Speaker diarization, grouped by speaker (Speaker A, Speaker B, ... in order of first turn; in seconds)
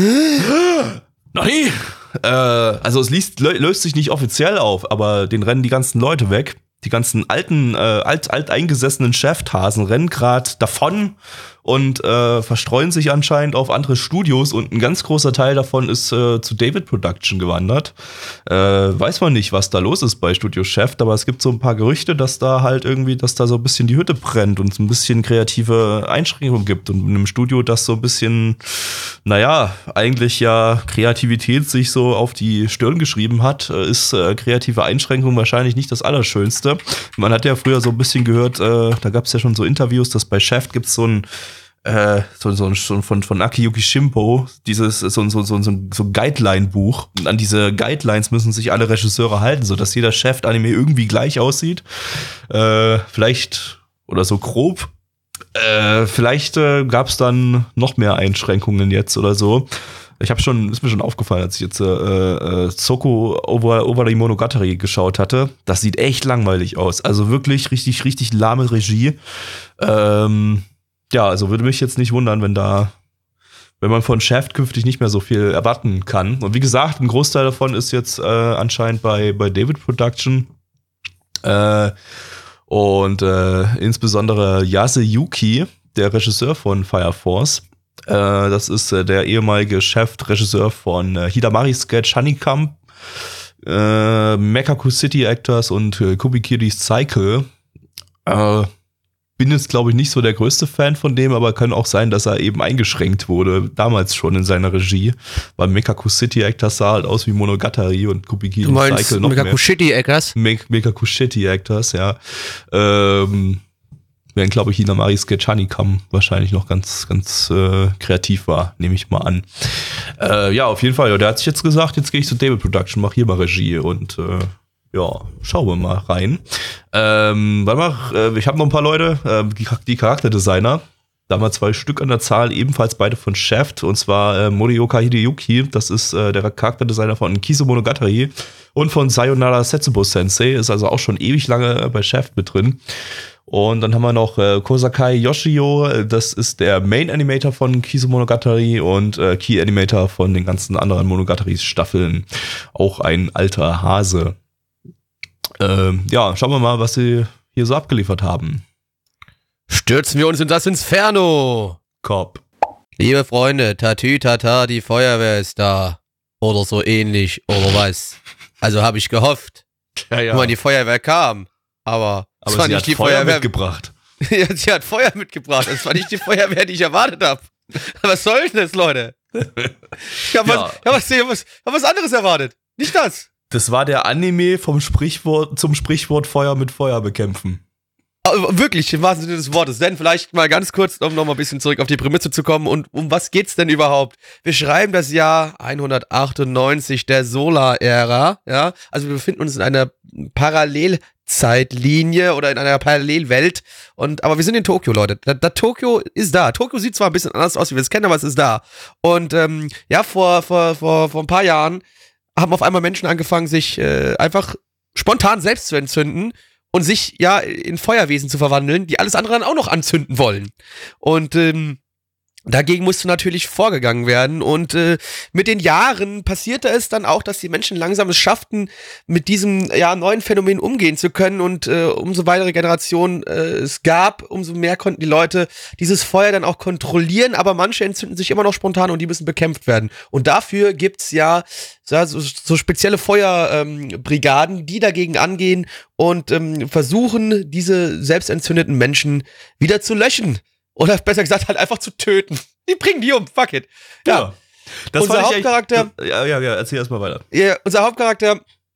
Speaker A: 0.3-41.2, 41.8-54.9, 55.5-69.2, 69.8-72.9, 73.8-80.5, 81.4-81.9, 82.7-92.8, 93.6-97.5, 98.2-98.7, 99.4-109.6, 110.3-113.6, 114.3-142.8, 143.5-154.3, 155.6-158.6, 162.0-162.4, 170.1-170.5, 172.4-173.9, 180.4-180.8, 183.5-187.6, 254.1-254.3, 254.9-257.2
Speaker B: 108.6-110.3, 159.7-161.8, 163.0-169.6, 170.3-173.5, 174.2-179.2, 180.1-183.3, 188.2-211.8, 212.3-221.8, 222.5-254.3, 255.0-255.9, 257.3-258.4